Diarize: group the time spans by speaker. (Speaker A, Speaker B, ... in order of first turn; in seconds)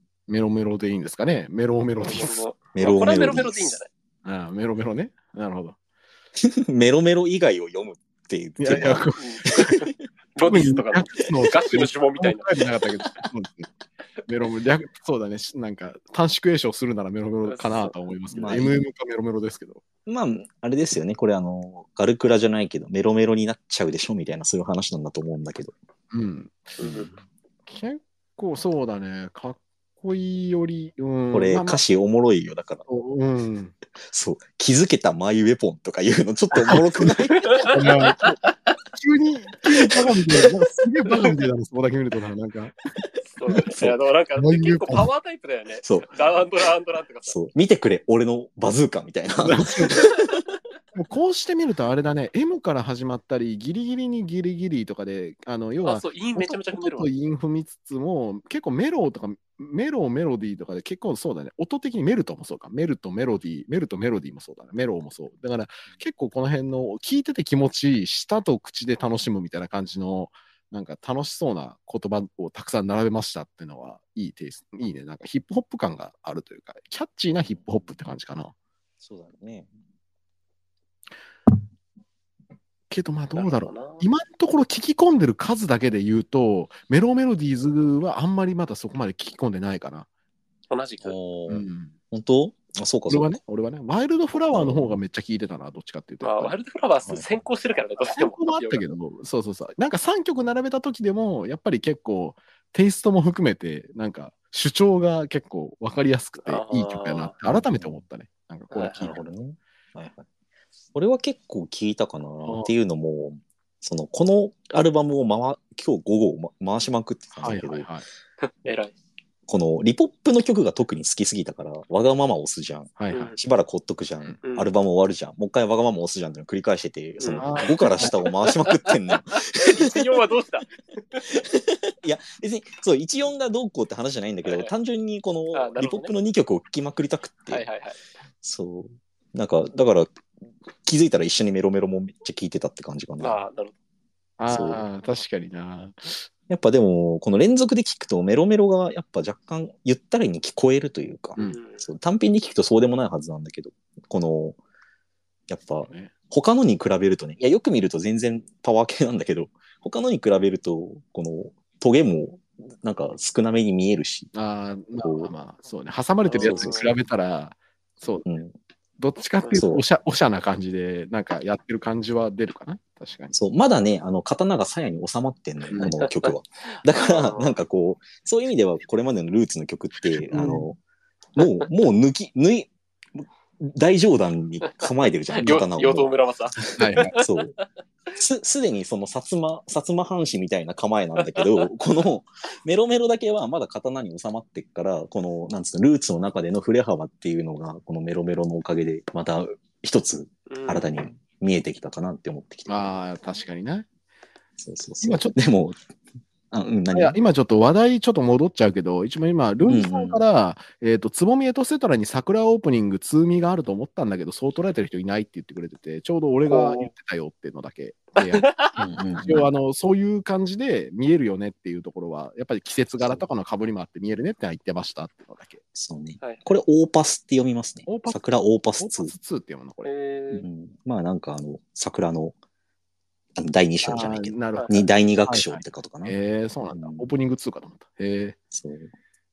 Speaker A: 0.3-2.5, 4.2-5.8, 8.6-9.7, 10.4-13.7, 14.3-19.8, 26.1-27.0, 27.7-31.8, 32.9-33.7, 36.6-38.4, 38.9-42.7, 44.4-45.1, 49.4-50.1, 51.0-78.5, 82.9-90.1, 91.5-91.9, 93.1-96.5, 98.1-109.2, 112.4-112.7, 117.4-118.0, 123.0-123.3, 127.4-128.1, 144.4-146.3, 155.8-156.1, 164.3-168.3, 169.0-173.3, 180.3-180.6, 186.8-187.1, 202.7-203.9, 205.0-205.4, 206.9-218.5, 219.2-225.6, 227.9-228.2, 228.8-229.9, 233.8-238.4
Speaker B: 2.0-3.9, 9.2-12.5, 17.4-17.9, 26.8-27.1, 37.4-37.7, 43.3-47.4, 55.8-57.1, 83.3-84.0, 90.7-91.2, 96.2-98.9, 106.5-107.3, 108.7-109.1, 118.4-118.9, 123.1-123.4, 124.4-124.7, 127.2-131.3, 134.4-134.7, 135.5-136.1, 137.5-138.0, 143.2-143.7, 151.4-151.8, 166.3-166.9, 175.9-176.3, 176.9-177.6, 184.6-187.6, 191.2-191.7, 200.5-200.9, 216.5-216.9, 218.2-218.8, 229.8-230.4
Speaker C: 2.7-3.8, 6.4-9.8, 18.3-18.8, 20.1-25.7, 26.8-27.1, 31.3-32.9, 34.0-37.8, 45.8-46.1, 47.3-50.3, 77.5-77.9, 79.0-79.7, 91.0-93.4, 94.5-95.0, 107.5-108.0, 109.0-110.3, 110.9-117.9, 119.5-130.1, 131.3-137.6, 138.4-140.1, 140.8-143.4, 144.5-144.8, 146.5-154.6, 155.5-164.3, 165.0-165.3, 166.4-166.8, 168.2-168.6, 169.6-169.8, 173.3-180.8, 181.4-186.1, 186.7-187.5, 188.1-203.0, 204.6-205.8, 206.5-207.2, 209.7-210.2, 218.8-219.5, 225.7-229.1, 230.3-232.3, 233.4-236.2, 236.7-237.1, 238.5-238.9